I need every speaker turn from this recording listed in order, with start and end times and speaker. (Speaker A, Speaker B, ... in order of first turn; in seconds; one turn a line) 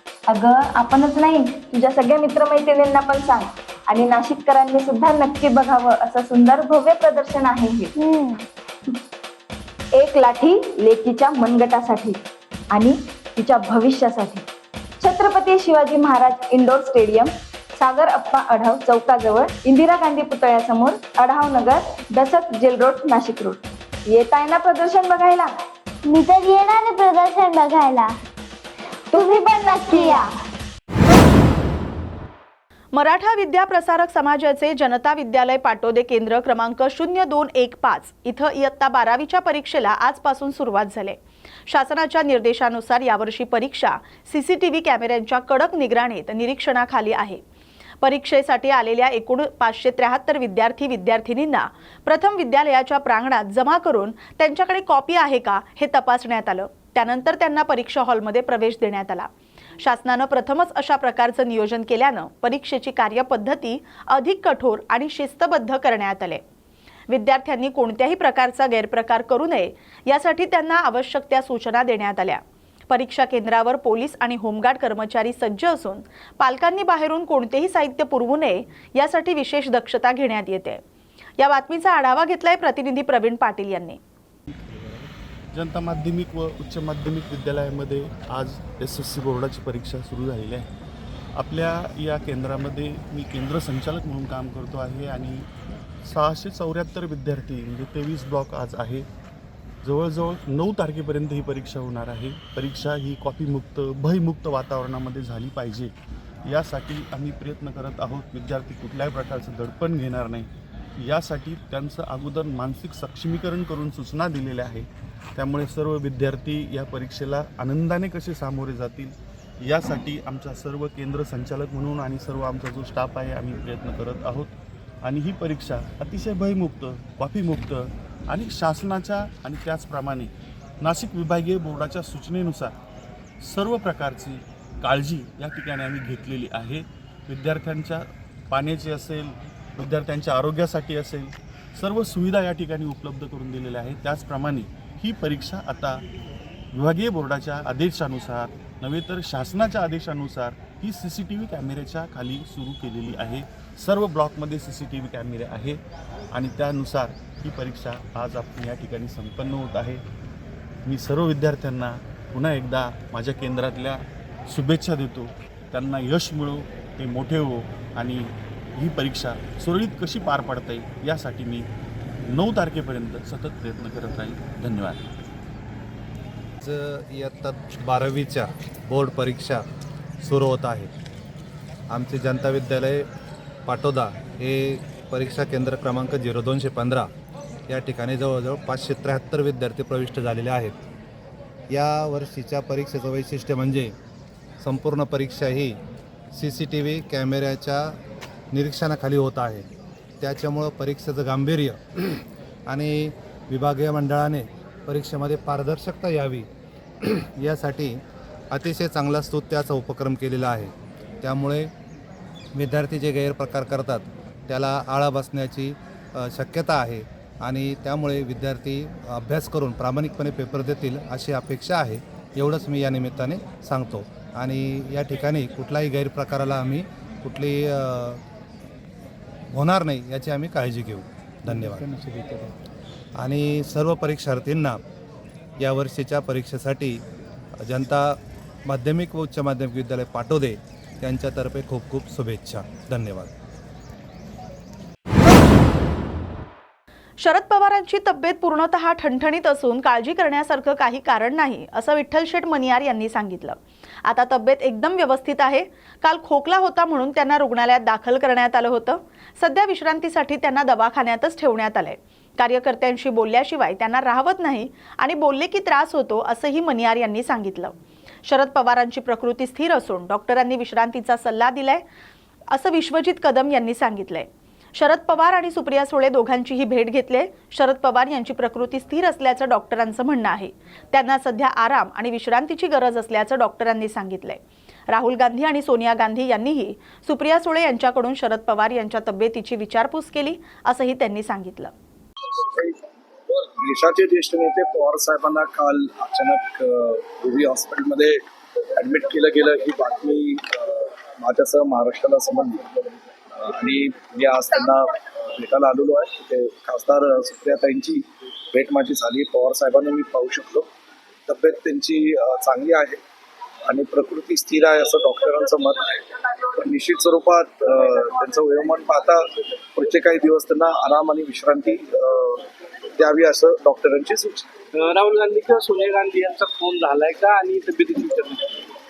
Speaker A: 0.3-7.9
Speaker B: 8.0-8.4
Speaker A: 9.9-12.2
Speaker A: 12.7-14.4
Speaker A: 15.0-25.5
Speaker B: 26.1-28.1
Speaker A: 29.1-30.2
Speaker B: 29.1-30.3
Speaker C: 32.9-47.4
Speaker C: 48.0-66.4
Speaker C: 67.1-80.8
Speaker C: 81.4-84.0
Speaker D: 85.5-90.7
Speaker D: 91.3-95.5
Speaker D: 96.0-99.1
Speaker D: 99.8-105.9
Speaker D: 106.5-124.5
Speaker D: 125.0-132.7
Speaker D: 133.4-146.0
Speaker D: 146.7-155.8
Speaker D: 156.3-160.0
Speaker D: 160.8-171.7
Speaker D: 172.2-175.1
Speaker E: 176.6-179.6
Speaker E: 180.2-180.9
Speaker E: 181.9-183.1
Speaker E: 183.7-187.1
Speaker E: 187.7-190.8
Speaker E: 191.7-193.9
Speaker E: 194.6-195.8
Speaker E: 196.3-198.0
Speaker E: 198.5-199.7
Speaker E: 200.2-201.8
Speaker E: 202.7-206.5
Speaker E: 207.1-211.7
Speaker E: 212.5-228.2
Speaker E: 229.5-232.1
Speaker E: 233.2-234.8
Speaker E: 235.6-237.0
Speaker E: 237.6-243.3
Speaker C: 247.2-267.7
Speaker C: 268.2-271.8
Speaker C: 272.5-291.7
Speaker F: 293.3-298.2
Speaker F: 298.8-310.7
Speaker F: 311.3-313.0
Speaker F: 313.7-324.5
Speaker G: 324.7-328.6